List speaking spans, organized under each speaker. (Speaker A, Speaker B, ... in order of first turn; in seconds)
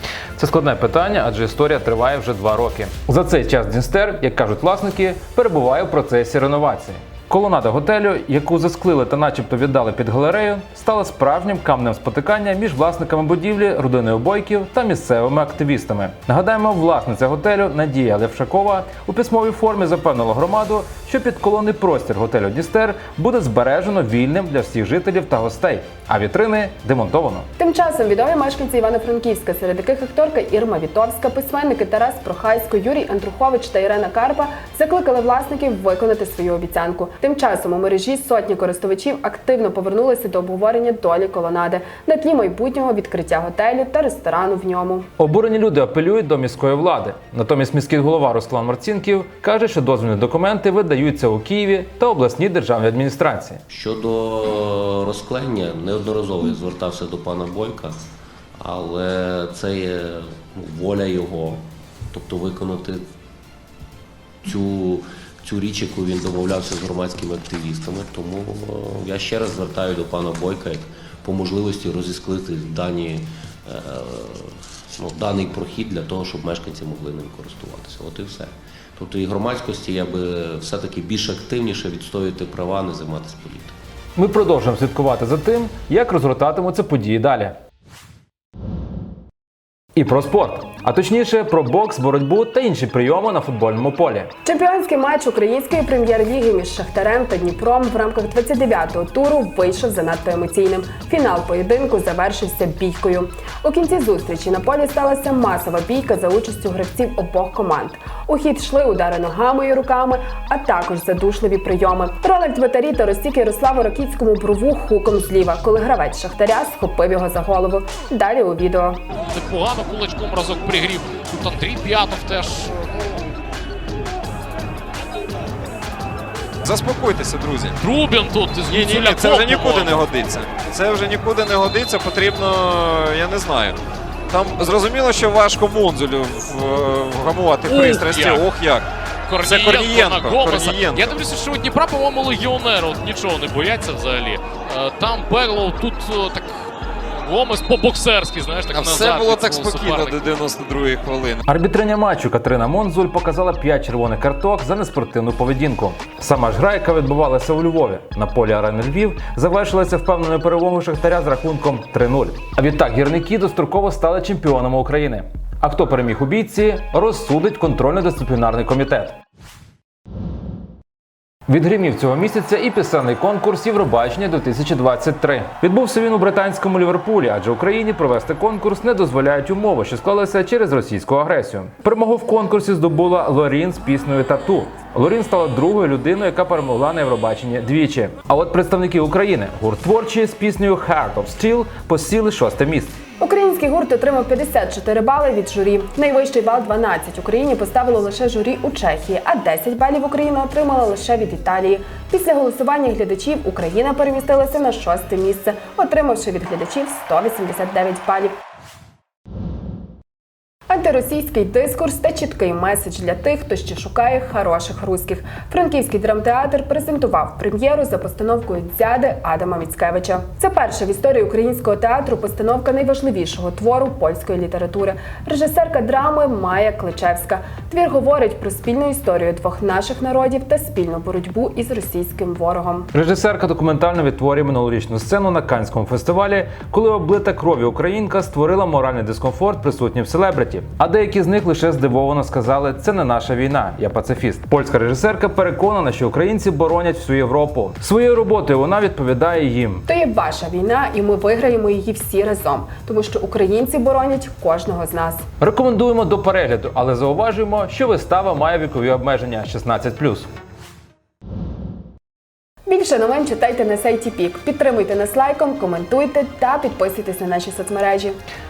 Speaker A: 0.4-27.5, 45.2-53.6, 84.2-87.5, 90.0-94.3, 151.5-169.2, 171.5-193.0, 232.9-249.8, 255.4-260.3
Speaker B: 27.6-45.1, 94.5-119.0, 193.2-208.4, 210.7-232.9, 249.9-255.2, 262.7-268.2
Speaker C: 53.7-58.0, 58.6-61.6, 62.1-63.0, 64.5-83.7
Speaker D: 119.3-122.8, 127.8-130.1, 137.7-138.5, 139.3-150.4
Speaker E: 126.6-127.8, 128.7-138.9, 139.4-141.2, 148.7-151.4